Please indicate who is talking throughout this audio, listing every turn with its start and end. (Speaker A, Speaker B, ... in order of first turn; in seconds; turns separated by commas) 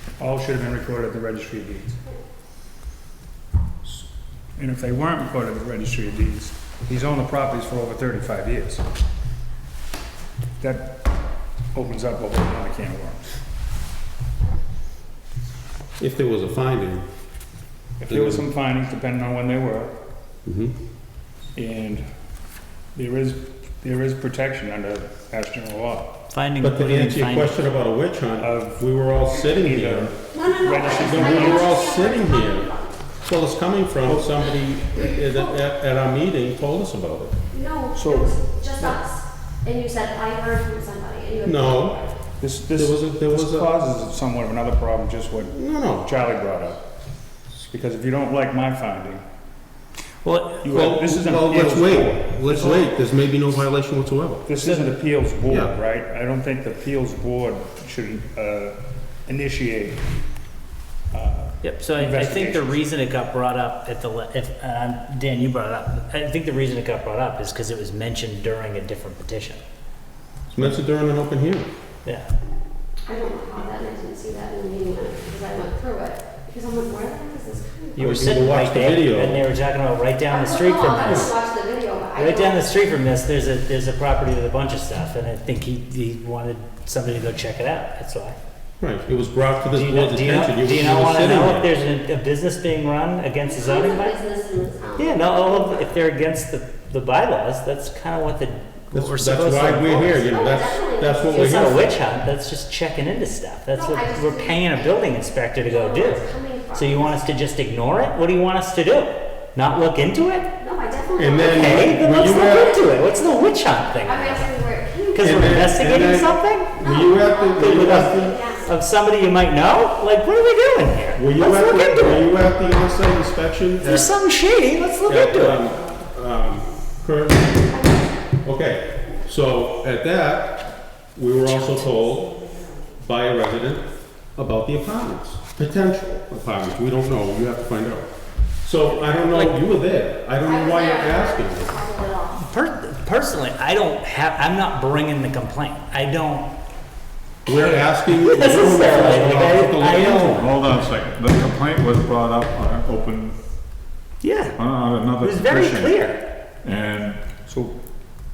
Speaker A: 0.2-2.0, Speaker A: 4.6-8.8, Speaker A: 10.6-11.0, Speaker A: 11.7-13.2, Speaker B: 16.0-17.1, Speaker A: 18.0-19.9, Speaker B: 18.1-18.4, Speaker B: 20.4-20.7, Speaker A: 21.5-22.1, Speaker A: 22.9-26.2, Speaker C: 26.3-27.6, Speaker B: 26.6-30.2, Speaker A: 28.4-31.7, Speaker D: 30.3-33.1, Speaker B: 30.9-37.4, Speaker D: 37.5-42.1, Speaker A: 37.9-39.0, Speaker B: 41.4-42.0, Speaker A: 42.4-46.8, Speaker B: 42.7-43.7, Speaker B: 45.5-46.1, Speaker A: 47.5-49.2, Speaker C: 50.2-50.6, Speaker A: 50.6-52.9, Speaker B: 50.7-54.4, Speaker A: 54.5-60.0, Speaker B: 55.5-55.7, Speaker A: 61.1-62.8, Speaker C: 61.6-69.6, Speaker B: 70.5-71.7, Speaker D: 73.0-78.5, Speaker C: 78.0-81.3, Speaker B: 78.0-79.4, Speaker D: 80.3-82.7, Speaker B: 81.0-81.3, Speaker C: 82.2-88.4, Speaker B: 88.8-91.7, Speaker C: 89.7-94.2, Speaker D: 93.4-95.9, Speaker C: 95.0-100.2, Speaker B: 98.9-101.9, Speaker D: 100.2-101.7, Speaker C: 101.3-110.5, Speaker D: 103.7-107.3, Speaker D: 110.6-113.3, Speaker B: 111.1-112.7, Speaker C: 111.5-114.5, Speaker D: 114.0-115.7, Speaker C: 115.1-116.8, Speaker B: 115.2-118.3, Speaker D: 116.8-118.7, Speaker C: 117.6-118.1, Speaker C: 118.7-122.3, Speaker B: 121.1-124.1, Speaker C: 123.8-125.6, Speaker B: 125.0-127.7, Speaker D: 127.7-128.2, Speaker B: 128.4-132.4, Speaker B: 133.0-133.8, Speaker B: 134.3-138.1, Speaker B: 138.6-141.7, Speaker D: 140.4-142.5, Speaker C: 142.3-146.5, Speaker B: 147.4-150.5, Speaker C: 148.2-150.5, Speaker E: 150.2-153.4, Speaker C: 154.2-154.6, Speaker E: 154.6-156.0, Speaker C: 155.2-156.2, Speaker E: 156.6-157.2, Speaker A: 157.4-157.8